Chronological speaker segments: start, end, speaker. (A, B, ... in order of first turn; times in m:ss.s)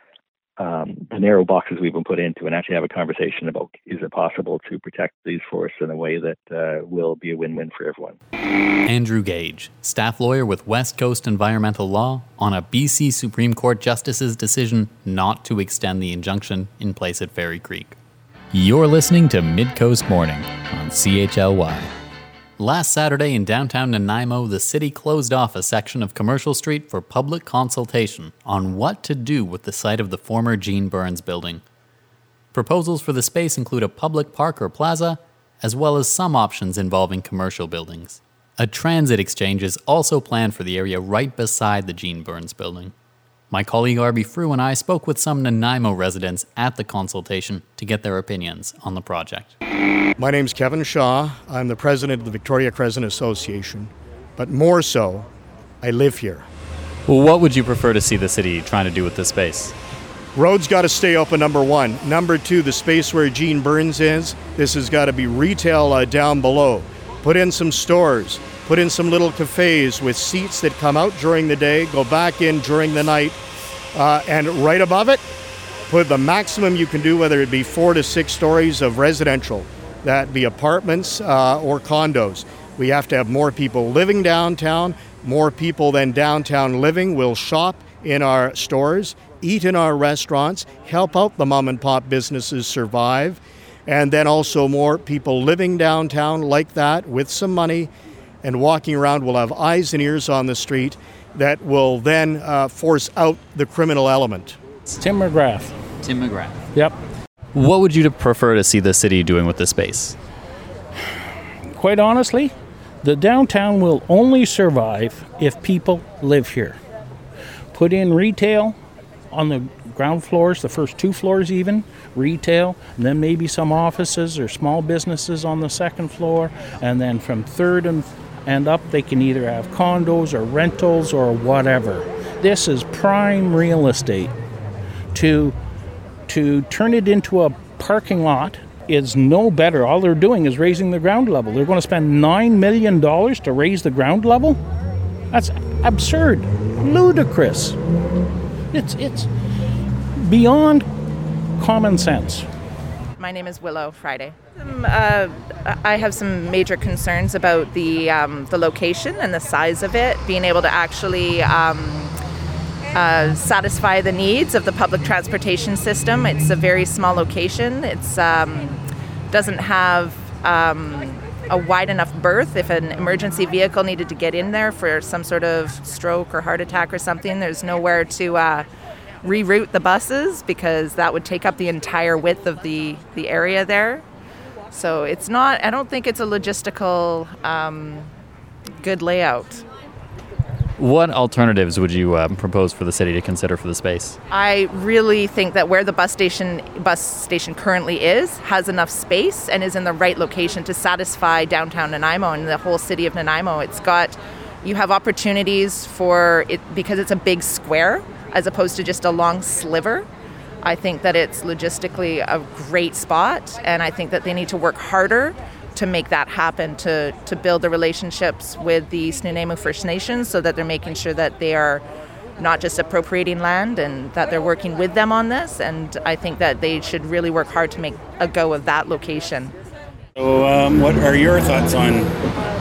0:00.6-0:08.2 A
0:08.9-0:18.0 B
0:18.5-0:21.9 B
0:22.6-0:31.6 B
0:32.5-0:42.9 B
0:43.5-0:49.6 B
0:50.2-0:55.3 C
0:55.8-0:56.5 C
0:57.1-0:59.8 B
1:00.4-1:13.4 C
1:13.9-1:15.2 C
1:15.9-1:37.9 C
1:38.4-1:44.6 C
1:44.9-1:45.8 D
1:46.0-1:46.6 B
1:47.5-1:50.2 B
1:51.8-1:56.8 D
1:57.7-1:58.8 D
1:59.3-2:14.3 D
2:15.1-2:15.6 D
2:16.3-2:24.6 D
2:25.3-2:27.8 D
2:28.7-2:29.3 D
2:30.2-2:30.9 D
2:31.6-2:32.5 D
2:33.2-2:42.1 E
2:42.9-2:48.8 E
2:49.3-2:58.7 E
2:59.2-3:04.0 E
3:04.7-3:08.1 E
3:08.8-3:09.6 E
3:10.8-3:14.2 B
3:14.3-3:30.1 E
3:30.6-3:41.8 E
3:42.4-3:49.5 E
3:50.2-3:52.1 F